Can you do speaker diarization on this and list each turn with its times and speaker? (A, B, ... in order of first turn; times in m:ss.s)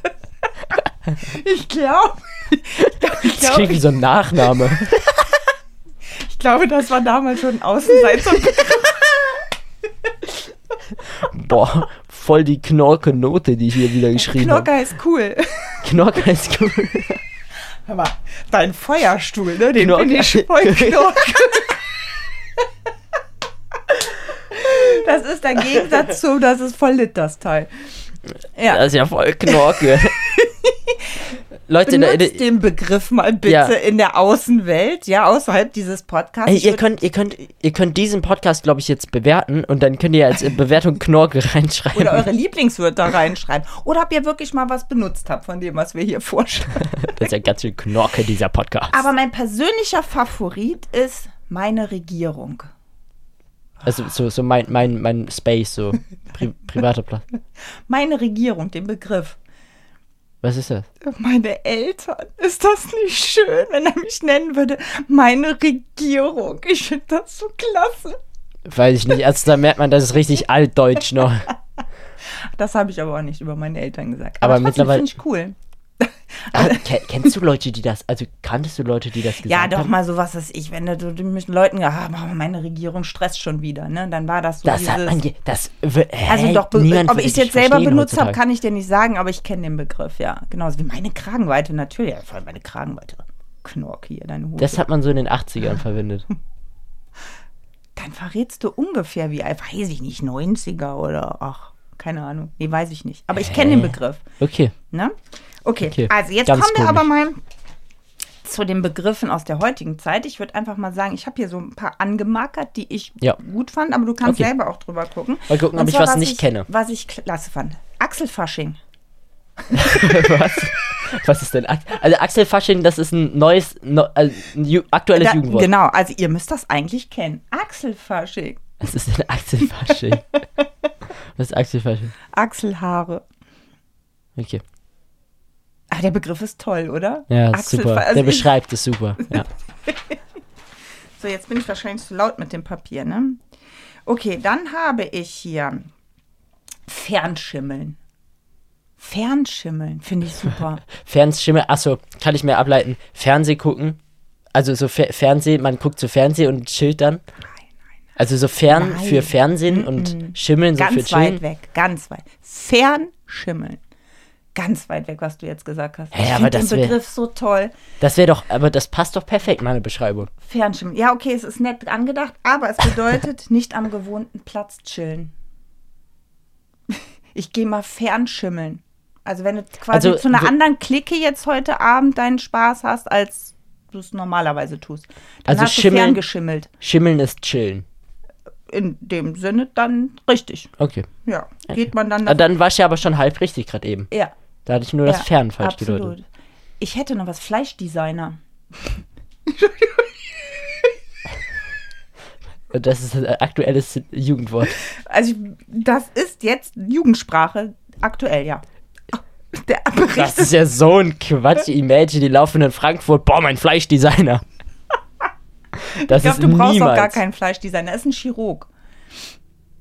0:01.2-0:03.8 A
0:02.8-0:05.0 B
0:04.5-0:05.3 A
0:06.1-0:09.5 A
0:11.2-0:14.7 B
0:14.1-0:15.8 A
0:15.8-0:17.2 B
0:17.9-0:22.0 A
0:19.8-0:21.1 B
0:24.3-0:27.7 A
0:28.6-0:28.8 A
0:28.7-0:30.2 B
0:29.5-0:31.3 A
0:31.7-0:32.4 B
0:31.8-0:36.8 A
0:33.5-0:33.7 B
0:36.5-0:42.3 B
0:41.9-0:47.3 A
0:46.9-0:49.0 B
0:48.9-0:52.7 A
0:53.8-0:57.2 B
0:57.9-0:59.4 A
1:00.4-1:00.9 B
1:01.0-1:08.2 A
1:08.7-1:11.5 B
1:12.2-1:17.3 A
1:14.4-1:15.1 B
1:16.5-1:19.9 B
1:19.4-1:25.2 A
1:24.6-1:28.4 B
1:26.3-1:34.8 A
1:34.6-1:36.3 B
1:38.0-1:44.2 A
1:43.4-1:44.8 B
1:44.9-1:47.4 A
1:45.8-1:47.1 B
1:48.4-1:58.8 A
1:54.2-1:54.5 B
1:55.5-1:56.7 B
1:59.7-2:00.3 A
1:59.7-2:05.7 B
2:05.2-2:08.7 A
2:08.8-2:10.2 B
2:09.8-2:10.6 A
2:11.4-2:12.1 B
2:12.3-2:13.2 A
2:14.4-2:14.6 B
2:15.9-2:18.5 A
2:17.3-2:19.5 B
2:19.3-2:20.2 A
2:21.2-2:23.4 A
2:24.1-2:25.9 A
2:26.9-2:28.0 A
2:29.0-2:30.8 A
2:30.9-2:34.0 B
2:34.5-2:37.2 B
2:38.2-2:41.4 B
2:38.7-2:43.8 A
2:44.6-2:47.7 A
2:46.1-2:47.0 B
2:48.0-2:50.3 B
2:50.4-2:55.3 A
2:56.9-3:06.7 A
2:59.9-3:00.5 B
3:05.5-3:06.2 B
3:06.8-3:07.8 B
3:08.7-3:10.7 A
3:10.8-3:11.1 B
3:11.2-3:12.4 A
3:11.7-3:14.1 B
3:14.7-3:16.1 B
3:15.0-3:16.2 A
3:16.8-3:20.9 A
3:22.7-3:24.8 B
3:24.8-3:30.6 A
3:30.1-3:34.4 B
3:35.9-3:37.2 B
3:36.0-3:38.7 A